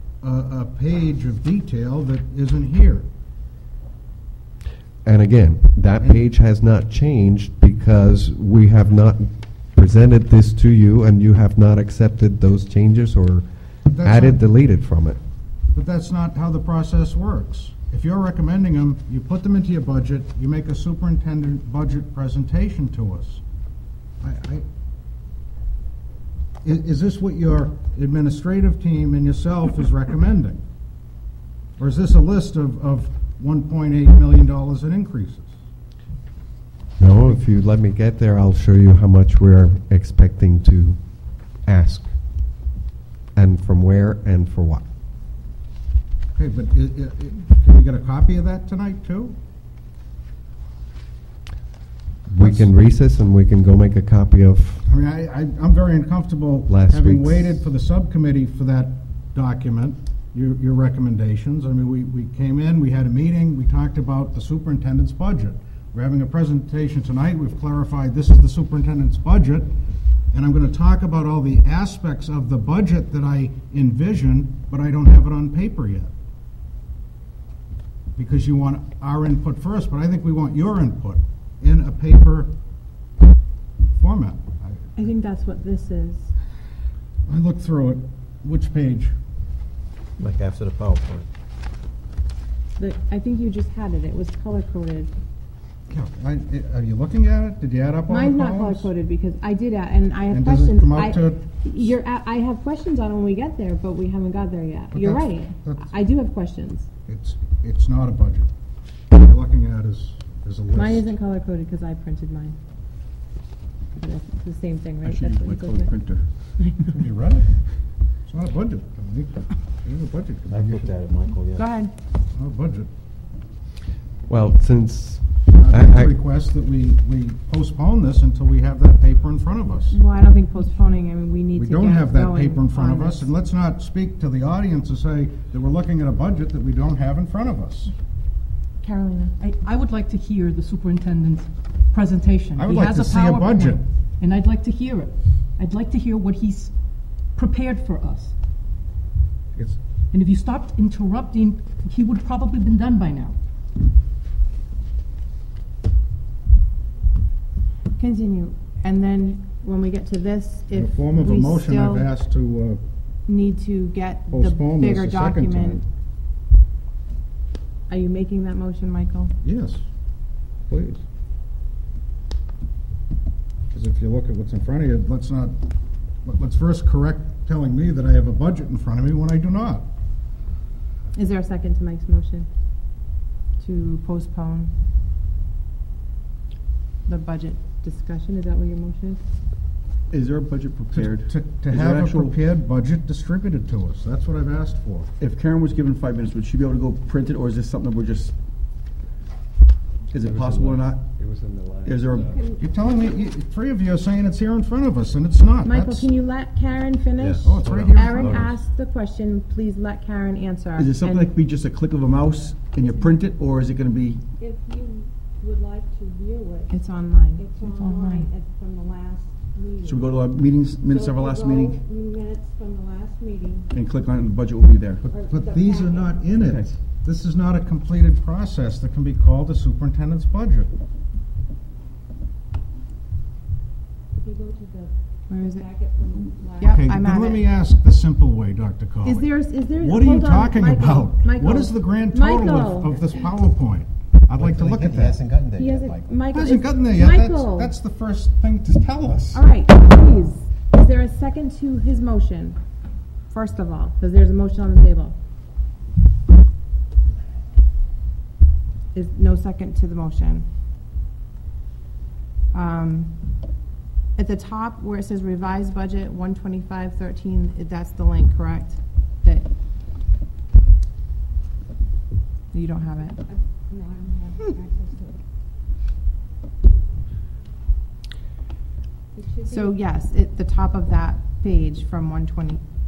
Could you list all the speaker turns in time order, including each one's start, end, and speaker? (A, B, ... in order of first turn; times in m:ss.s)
0:00.2-0:03.1 A
0:05.0-0:15.2 B
0:06.0-0:06.2 A
0:13.9-0:14.4 A
0:15.7-0:23.4 A
0:24.2-0:24.6 A
0:26.6-0:30.6 A
0:31.8-0:35.5 A
0:37.0-0:41.0 B
0:41.6-0:42.1 B
0:43.4-0:44.8 B
0:46.3-0:49.4 A
0:52.3-0:54.8 B
0:52.4-0:52.7 A
0:54.8-1:09.7 A
0:56.7-0:57.6 B
1:10.3-1:16.1 A
1:18.2-1:22.5 A
1:23.9-1:24.9 A
1:25.0-1:26.3 C
1:27.3-1:29.1 A
1:30.2-1:31.2 D
1:32.8-1:35.1 C
1:35.9-1:38.9 A
1:38.1-1:46.9 C
1:40.3-1:41.5 A
1:44.9-1:46.0 A
1:47.1-1:48.5 A
1:49.1-1:51.1 A
1:50.7-1:52.6 C
1:54.0-1:55.9 C
1:55.0-1:56.8 E
1:56.9-1:57.6 A
1:58.2-2:00.9 A
2:00.5-2:01.7 D
2:01.5-2:01.9 C
2:02.3-2:02.9 A
2:04.3-2:06.2 B
2:05.5-2:10.0 A
2:09.9-2:13.3 C
2:11.5-2:17.9 A
2:18.8-2:19.3 C
2:19.4-2:26.7 F
2:22.6-2:23.8 A
2:27.3-2:28.3 F
2:30.1-2:33.4 F
2:38.0-2:42.1 C
2:40.7-2:42.8 A
2:43.3-2:45.8 C
2:44.3-2:45.8 A
2:47.9-2:49.3 C
2:49.4-2:49.8 A
2:50.7-2:51.0 A
2:53.7-2:55.6 A
2:56.2-2:59.9 A
3:01.1-3:02.5 C
3:03.6-3:04.7 C
3:07.1-3:09.2 C
3:10.1-3:12.3 E
3:10.9-3:15.1 A
3:15.2-3:18.3 E
3:20.1-3:21.0 E
3:20.2-3:22.4 B
3:21.8-3:22.3 E
3:22.0-3:22.6 G
3:22.6-3:26.1 A
3:25.6-3:31.3 C
3:27.2-3:28.5 B
3:27.4-3:28.5 A
3:30.8-3:34.3 E
3:32.8-3:33.1 G
3:34.4-3:36.8 G
3:36.7-3:38.3 C
3:37.3-3:40.2 G
3:39.8-3:41.8 E
3:40.8-3:43.7 G
3:43.7-3:45.0 E
3:45.0-3:50.7 A
3:45.1-3:46.4 G
3:46.4-3:46.8 E
3:54.1-3:56.8 G
3:55.3-3:55.6 C
3:56.6-3:57.4 C
3:56.6-4:05.2 A
3:59.0-4:02.9 C
4:04.4-4:06.1 D
4:05.5-4:07.7 C
4:06.3-4:09.4 A
4:09.3-4:12.6 C
4:13.3-4:15.2 C
4:18.9-4:20.4 C
4:22.5-4:23.1 C
4:24.2-4:29.5 C
4:32.5-4:33.2 C
4:33.1-4:35.2 G
4:39.1-4:39.8 G
4:39.4-4:42.6 C